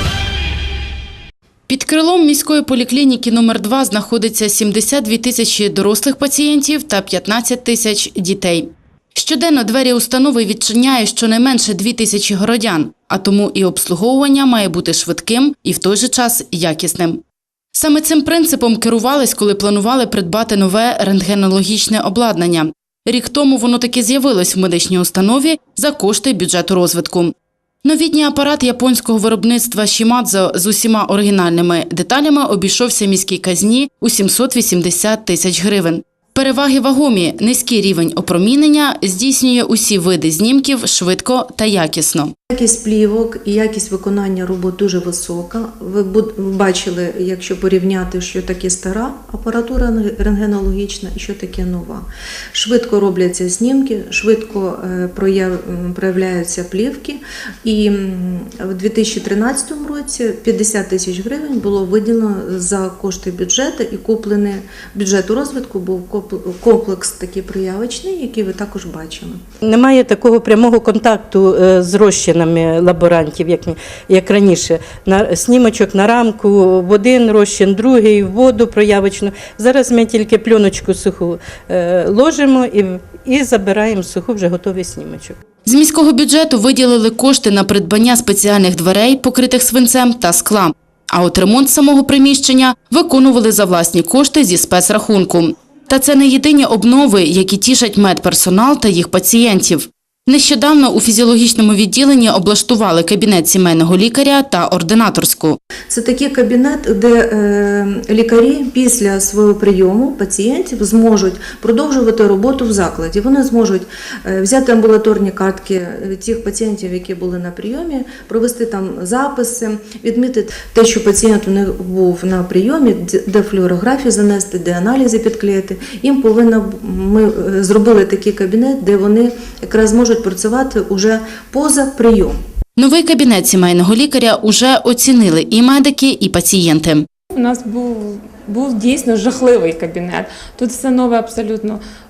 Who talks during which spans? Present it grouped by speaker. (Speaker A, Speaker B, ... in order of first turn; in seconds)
Speaker A: 1.7-8.6, 9.2-17.1, 17.8-27.3, 27.9-42.3, 85.7-105.6, 132.8-137.0
Speaker B: 42.5-69.4, 105.9-132.4
Speaker C: 69.6-85.4
Speaker D: 137.3-141.8